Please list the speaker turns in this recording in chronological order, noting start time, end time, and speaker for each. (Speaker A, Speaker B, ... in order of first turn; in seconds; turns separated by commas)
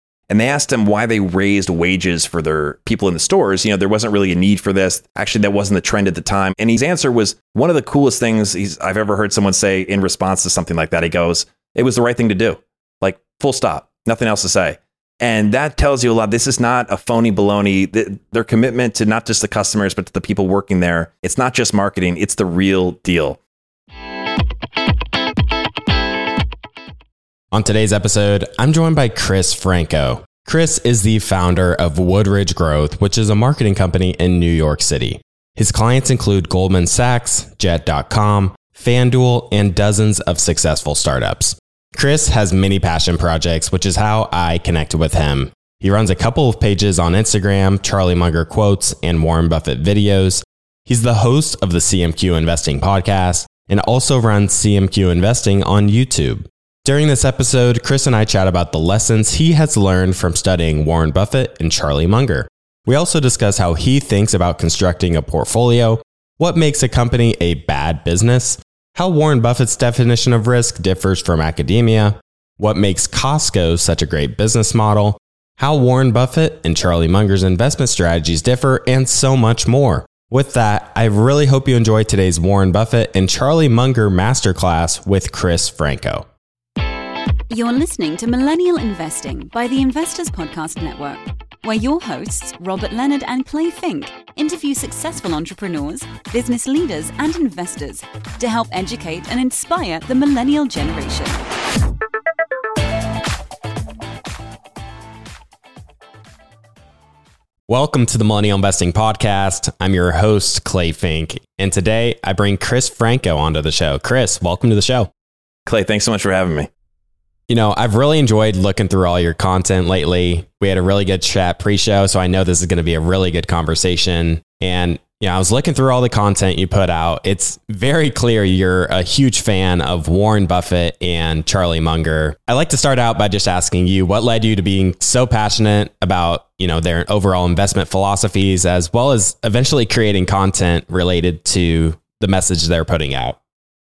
Speaker A: 0.3-23.4, Speaker B: 27.5-86.3, Speaker C: 87.5-101.5, Speaker B: 107.7-115.1, Speaker A: 115.7-116.7, Speaker B: 117.5-143.4